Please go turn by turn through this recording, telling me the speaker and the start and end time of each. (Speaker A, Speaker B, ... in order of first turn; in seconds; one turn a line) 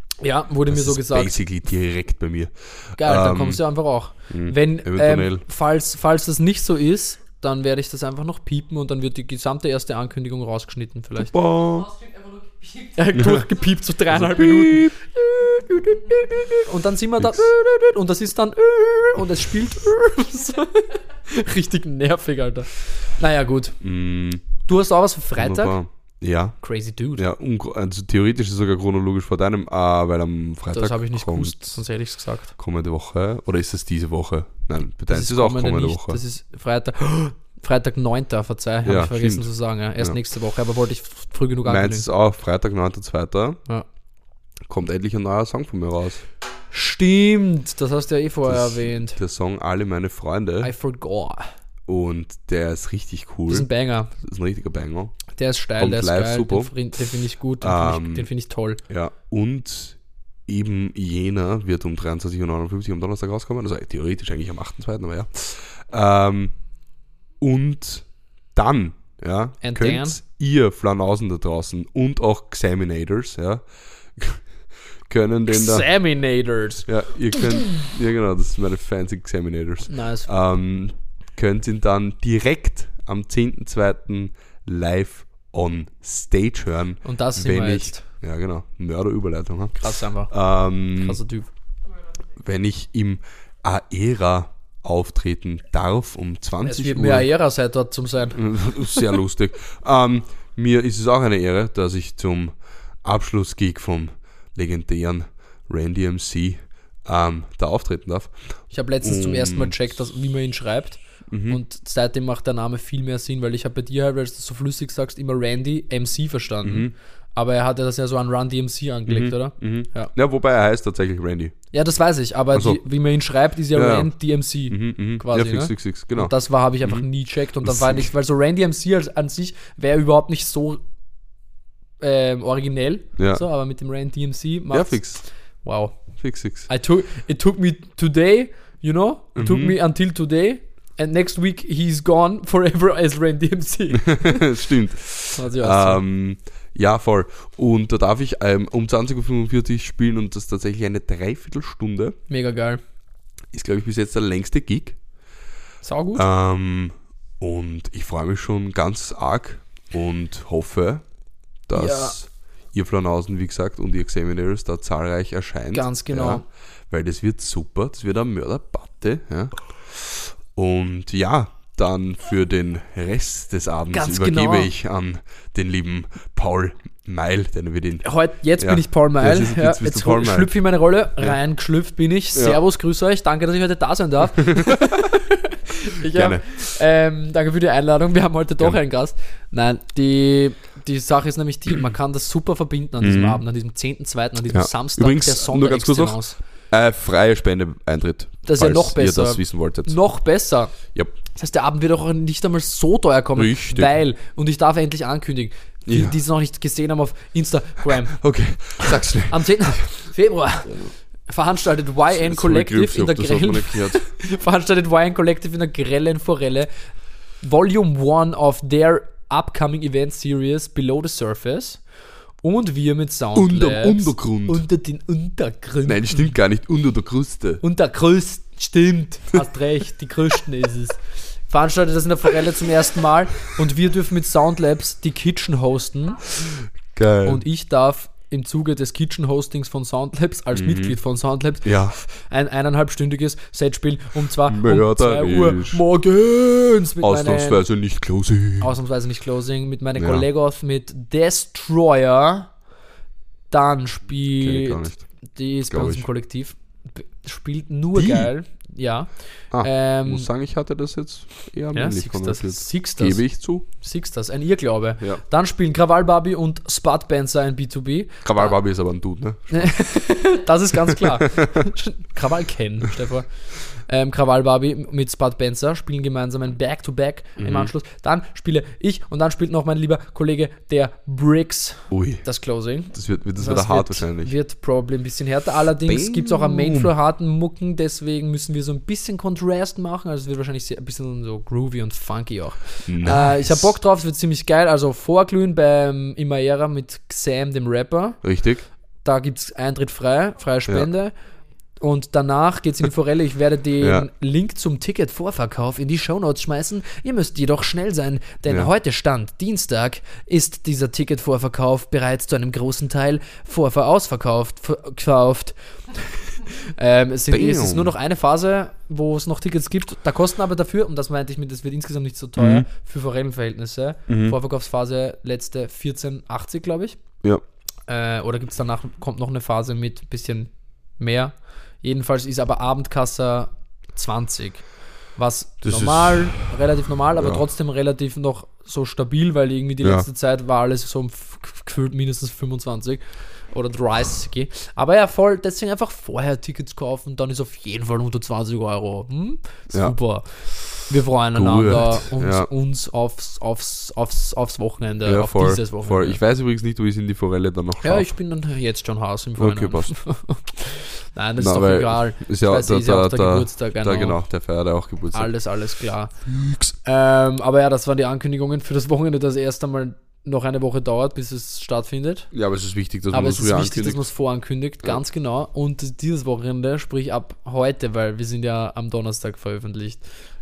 Speaker A: 0.2-1.4
Speaker B: 0.7-3.6
Speaker A: 3.0-11.3
Speaker B: 4.3-5.4
Speaker B: 11.3-11.9
Speaker C: 11.4-13.8
Speaker A: 13.0-23.8
Speaker B: 13.2-13.4
Speaker B: 14.1-14.9
Speaker C: 16.0-16.4
Speaker B: 17.2-17.5
Speaker B: 23.8-24.7
Speaker A: 24.6-25.8
Speaker B: 25.4-31.8
Speaker A: 26.6-27.2
Speaker A: 30.7-32.5
Speaker B: 32.6-36.2
Speaker A: 35.1-42.1
Speaker B: 38.8-40.1
Speaker B: 41.7-43.6
Speaker B: 44.7-46.2
Speaker A: 46.7-49.2
Speaker B: 48.5-50.7
Speaker A: 50.6-51.5
Speaker B: 51.9-55.2
Speaker A: 53.5-54.1
Speaker A: 55.3-58.8
Speaker B: 55.8-56.7
Speaker B: 57.6-58.3
Speaker B: 58.9-66.6
Speaker B: 67.4-74.5
Speaker A: 69.6-70.2
Speaker B: 75.0-75.9
Speaker A: 75.5-77.9
Speaker B: 76.9-91.2
Speaker A: 79.9-80.3
Speaker A: 87.0-88.0
Speaker A: 89.8-90.3
Speaker A: 90.9-91.5
Speaker C: 91.9-92.3
Speaker B: 92.4-97.3
Speaker A: 96.6-99.2
Speaker B: 98.3-109.8
Speaker A: 108.7-120.1
Speaker B: 111.3-111.6
Speaker B: 116.6-116.9
Speaker B: 119.1-121.6
Speaker A: 121.7-130.8
Speaker B: 122.5-122.8
Speaker B: 123.7-124.1
Speaker B: 124.7-127.1
Speaker B: 127.6-128.1
Speaker A: 132.0-144.4
Speaker B: 133.2-133.4
Speaker B: 134.7-135.2
Speaker B: 136.2-136.7
Speaker B: 139.3-139.8
Speaker B: 143.9-152.2
Speaker A: 145.3-146.0
Speaker A: 152.3-152.8
Speaker B: 153.5-155.0
Speaker A: 155.8-156.2
Speaker B: 156.2-161.0
Speaker B: 161.7-178.1
Speaker A: 161.7-162.2
Speaker A: 165.7-166.4
Speaker A: 173.9-174.7
Speaker A: 178.0-196.4
Speaker B: 178.6-180.5
Speaker B: 186.1-186.6
Speaker B: 193.0-193.4
Speaker B: 194.5-200.0
Speaker A: 198.4-200.8
Speaker A: 201.3-221.8
Speaker B: 203.4-203.9
Speaker B: 205.9-206.2
Speaker B: 208.1-210.1
Speaker B: 210.7-210.9
Speaker B: 212.1-214.1
Speaker A: 222.4-226.3
Speaker B: 223.3-224.6
Speaker B: 225.8-227.6
Speaker A: 227.6-236.4
Speaker B: 236.9-237.4
Speaker A: 237.2-247.6
Speaker B: 240.5-241.0
Speaker B: 241.6-242.0
Speaker B: 244.5-245.8
Speaker B: 247.0-248.7
Speaker A: 248.6-252.6
Speaker B: 250.0-250.2
Speaker A: 253.5-260.3
Speaker B: 254.4-255.1
Speaker B: 255.7-256.1
Speaker B: 257.9-258.3
Speaker B: 259.5-263.6
Speaker A: 261.7-268.6
Speaker B: 268.2-270.0
Speaker A: 269.5-298.2
Speaker B: 277.4-277.7
Speaker B: 281.9-282.2
Speaker B: 282.9-284.3
Speaker B: 285.9-286.9
Speaker B: 292.9-293.7
Speaker B: 298.2-298.6
Speaker A: 299.0-301.1
Speaker A: 301.8-327.0
Speaker B: 303.8-304.1
Speaker B: 317.3-317.9
Speaker B: 322.4-322.7
Speaker B: 324.1-324.4
Speaker A: 327.9-356.2
Speaker B: 335.6-336.6
Speaker B: 337.2-337.4
Speaker B: 339.8-340.1
Speaker B: 351.3-352.5
Speaker B: 355.0-358.1
Speaker A: 357.8-364.2
Speaker B: 359.4-360.0
Speaker B: 361.4-365.5
Speaker A: 365.1-366.1
Speaker B: 366.2-366.7
Speaker A: 366.8-372.3
Speaker B: 372.3-374.0
Speaker A: 373.1-380.2